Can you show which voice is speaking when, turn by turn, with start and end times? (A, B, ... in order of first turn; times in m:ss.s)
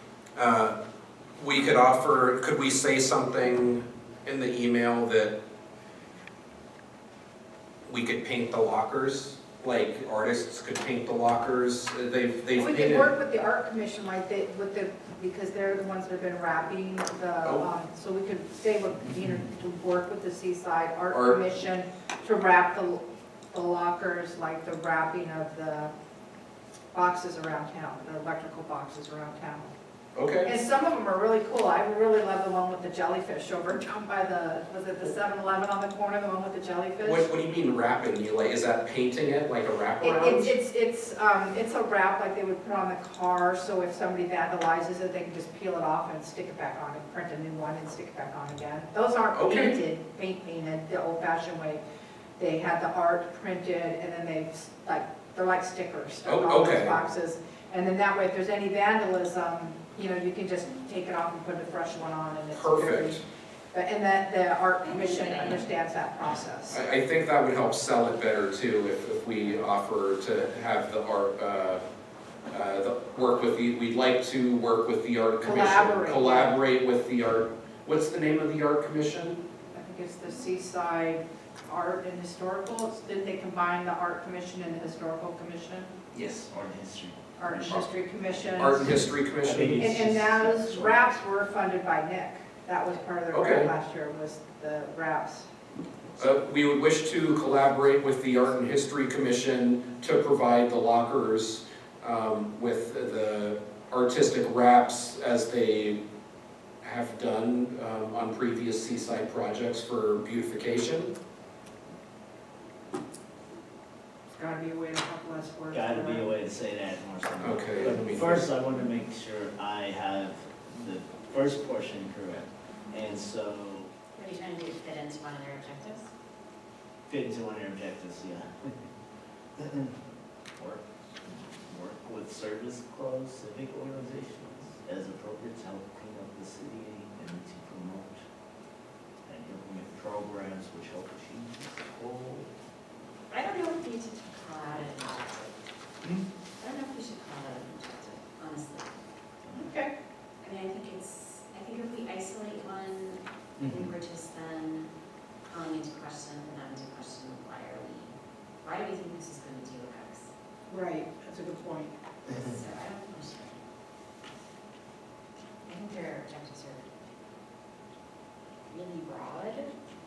0:00.4-0:00.8 A
0:01.4-0:05.4 A
0:07.9-0:13.1 A
0:12.6-0:25.9 B
0:21.1-0:21.4 A
0:26.9-0:29.7 B
0:30.2-0:30.5 A
0:30.4-0:37.3 B
0:37.0-0:40.5 A
0:40.0-0:51.8 B
0:49.3-0:49.8 A
0:52.4-1:03.2 B
0:56.2-0:57.0 A
1:02.5-1:03.2 A
1:03.7-1:06.8 B
1:04.8-1:05.7 C
1:06.7-1:11.8 A
1:12.5-1:19.4 A
1:15.4-1:16.6 B
1:19.7-1:25.9 B
1:26.1-1:27.8 D
1:27.4-1:29.0 B
1:28.6-1:30.0 A
1:29.4-1:31.0 D
1:29.8-1:35.5 B
1:33.3-1:33.7 A
1:36.2-1:46.0 A
1:46.8-1:51.2 A
1:54.3-1:56.3 B
1:55.7-2:03.9 D
1:57.4-1:58.4 A
2:04.2-2:06.1 C
2:07.1-2:08.8 D
2:09.6-2:18.3 D
2:19.3-2:22.5 D
2:23.3-2:25.6 C
2:26.6-2:29.0 C
2:29.5-2:29.9 B
2:30.4-2:34.9 C
2:33.6-2:33.9 D
2:35.5-2:40.3 C
2:40.7-2:41.9 B
2:42.3-2:43.6 C
2:45.7-2:46.9 C
2:48.7-2:49.7 C